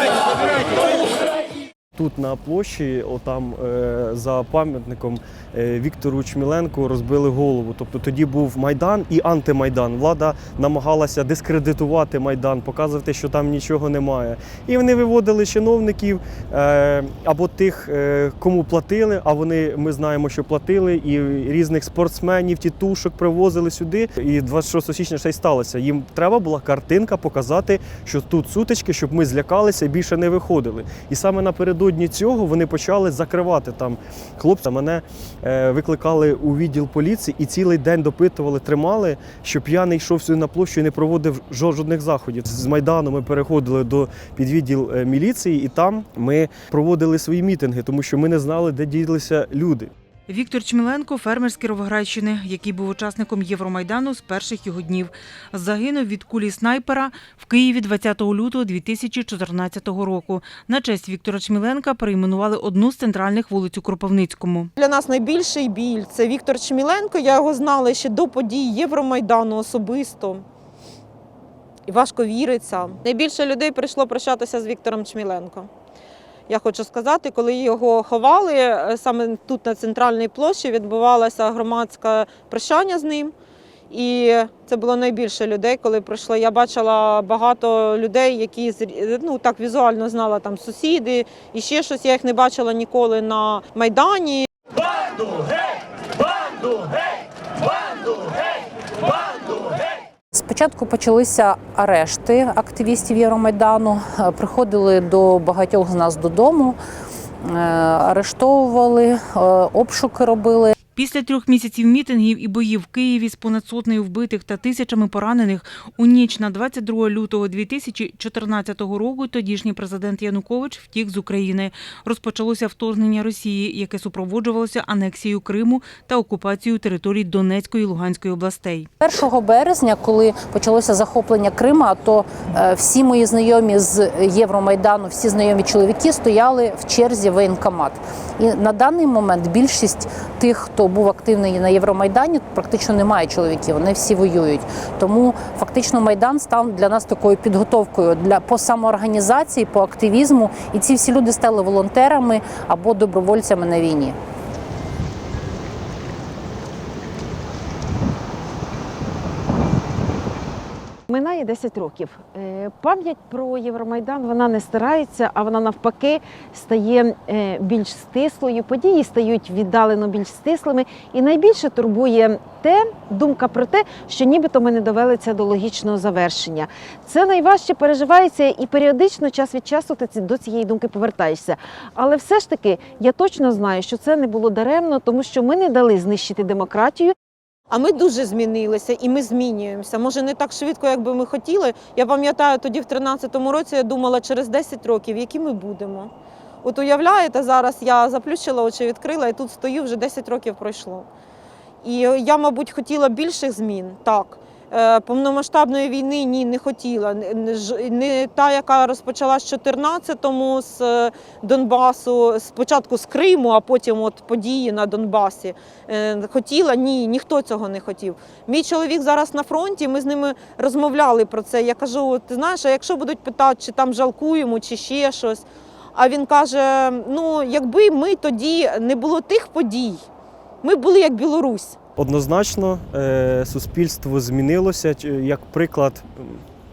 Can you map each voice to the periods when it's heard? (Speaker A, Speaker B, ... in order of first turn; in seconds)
Speaker A: 1.9-49.9, 232.0-236.4
Speaker B: 50.3-64.7, 110.9-128.9
Speaker C: 64.8-70.4, 71.9-75.7, 76.5-83.3, 83.9-94.5, 187.7-196.1, 196.6-201.1, 201.8-230.0, 230.6-231.8
Speaker D: 100.3-106.8, 107.4-110.7, 129.0-154.1
Speaker E: 161.1-187.1